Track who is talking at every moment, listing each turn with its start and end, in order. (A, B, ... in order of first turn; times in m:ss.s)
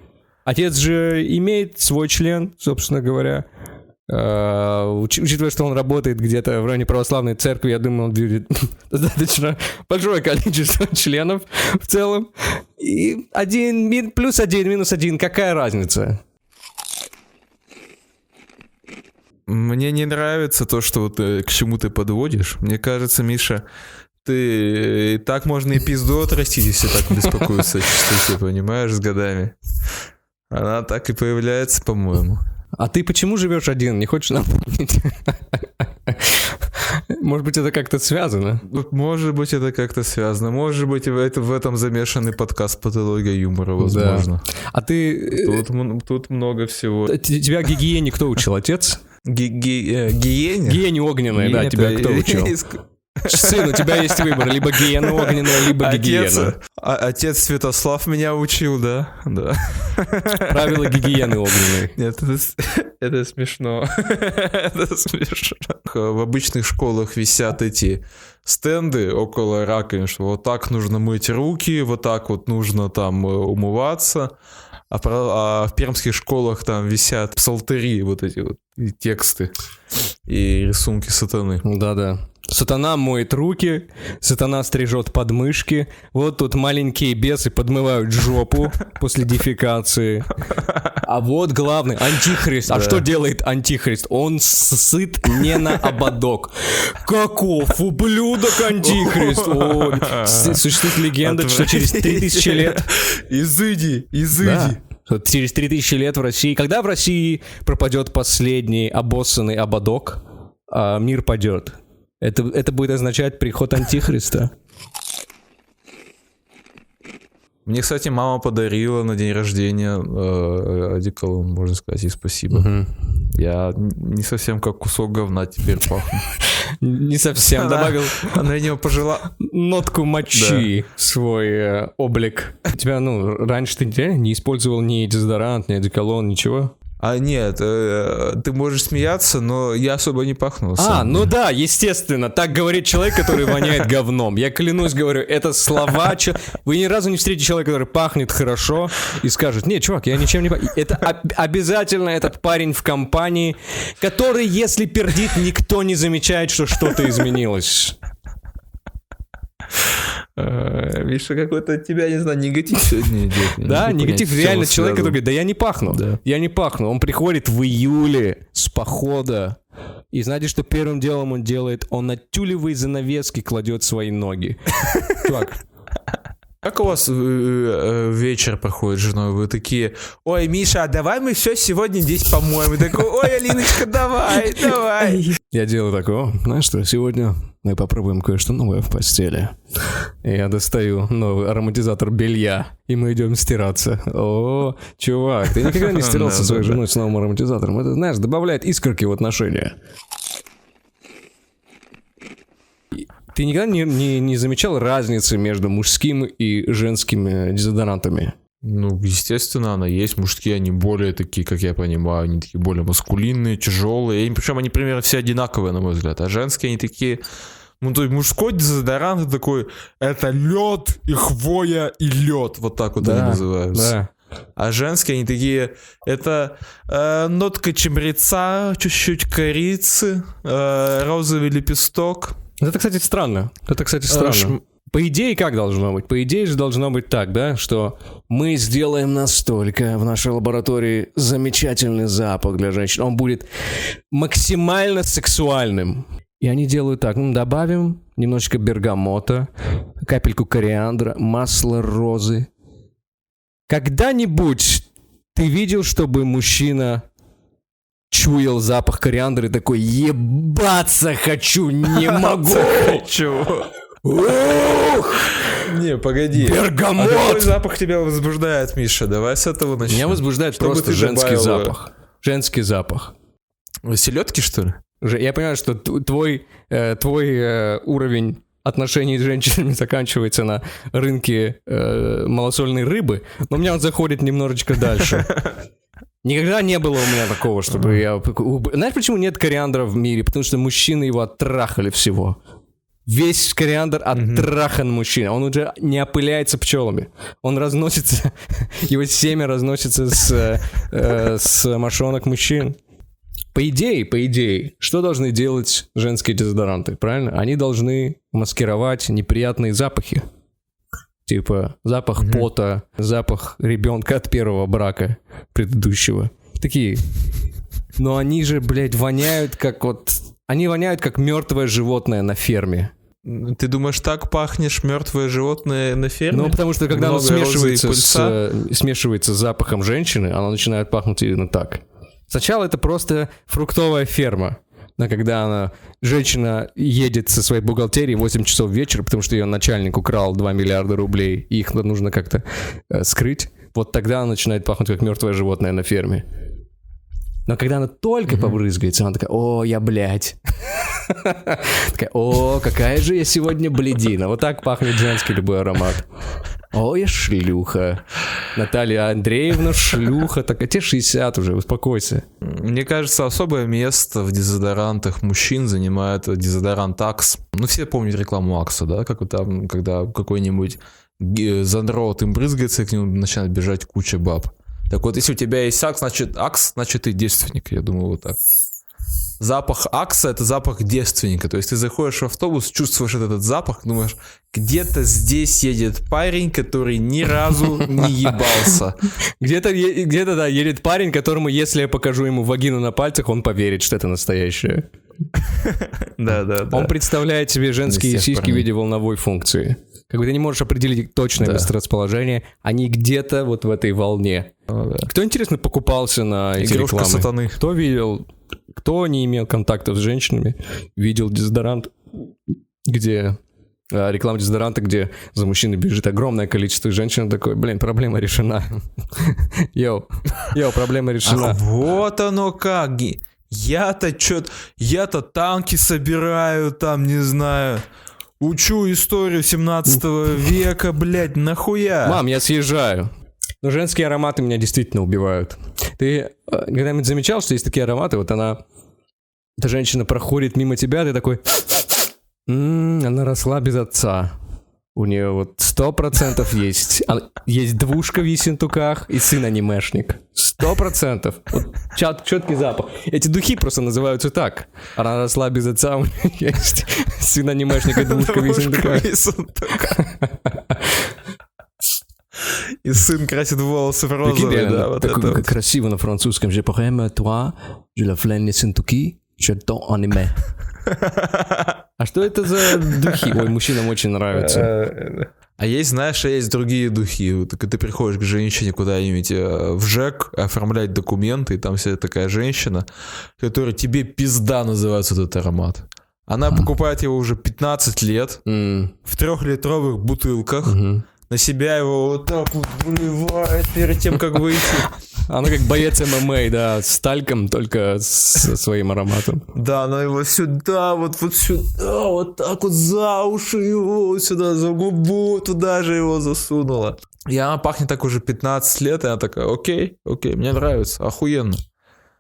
0:00.5-0:03.4 A
0:04.1-0:16.2 A
0:19.5-0:23.6 B
0:24.2-0:29.6 B
0:30.5-0:32.4 B
0:32.8-0:38.6 A
0:38.6-0:44.4 B
0:43.8-0:45.6 A
0:45.3-0:47.1 B
0:47.1-0:49.0 A
0:49.3-1:14.3 B
0:50.7-0:52.6 A
0:53.3-0:56.5 A
1:00.5-1:02.0 A
1:14.9-1:19.5 B
1:20.3-1:21.6 B
1:21.6-1:30.4 A
1:31.0-1:42.9 A
1:32.6-1:33.0 B
1:35.4-1:36.0 B
1:38.7-1:44.8 B
1:44.4-1:54.5 A
1:57.7-2:02.7 B
2:02.5-2:02.9 A
2:03.3-2:06.3 B
2:06.8-2:08.4 A
2:07.5-2:09.3 B
2:09.3-2:16.8 A
2:10.3-2:10.7 B
2:17.0-2:21.3 B
2:20.8-2:38.0 A
2:23.4-2:23.7 B
2:40.4-2:45.2 B
2:43.6-2:49.6 A
2:45.9-2:46.2 B
2:50.1-2:55.6 A
2:54.9-2:55.2 B
2:56.6-3:05.3 B
3:05.2-3:19.7 A
3:15.6-3:16.8 B
3:22.9-3:28.4 A
3:28.6-3:37.2 B
3:37.8-3:44.0 B
3:43.0-3:44.1 A
3:44.6-3:52.4 B
3:52.6-4:09.5 A
3:54.1-3:54.6 B
4:10.0-4:12.5 A
4:13.7-4:17.0 A
4:18.1-4:23.1 A
4:21.9-4:23.7 B
4:24.0-4:25.6 A
4:25.5-4:31.8 B
4:26.4-4:27.5 A
4:29.9-4:33.2 A
4:33.8-4:34.8 B
4:35.0-4:45.4 A
4:46.2-4:52.4 A
4:47.7-4:48.0 B
4:53.1-5:02.8 A
4:54.2-4:54.5 B
5:03.5-5:10.3 A
5:11.3-5:17.1 A
5:12.2-5:12.5 B
5:18.0-5:22.9 A
5:23.2-5:28.4 B
5:26.3-5:46.2 A
5:47.5-5:56.1 A
5:48.3-5:48.6 B
5:56.7-6:02.2 A
6:02.4-6:18.4 B
6:19.4-6:29.0 B
6:28.0-6:28.7 A
6:29.4-6:34.9 A
6:35.6-6:36.9 B
6:36.7-6:44.5 A
6:37.9-6:38.7 B
6:41.4-6:41.7 B
6:44.7-6:45.1 B
6:45.0-6:53.4 A
6:46.6-6:47.6 B
6:53.9-7:01.6 A
7:01.2-7:07.8 B
7:08.4-7:12.2 B
7:12.0-7:13.1 A
7:13.6-7:18.6 A
7:19.6-7:21.9 A
7:22.5-7:24.3 A
7:25.0-7:39.1 A
7:37.8-7:40.0 B
7:39.9-7:41.1 A
7:42.5-7:45.6 B
7:44.2-7:50.4 A
7:50.9-7:51.8 B
7:52.0-7:54.7 A
7:52.8-7:53.5 B
7:54.3-8:02.9 B
8:03.4-8:08.4 B
8:08.5-8:08.9 A
8:09.0-8:10.8 B
8:10.7-8:11.0 A
8:11.3-8:14.9 B
8:15.2-8:19.5 A
8:19.6-8:31.6 B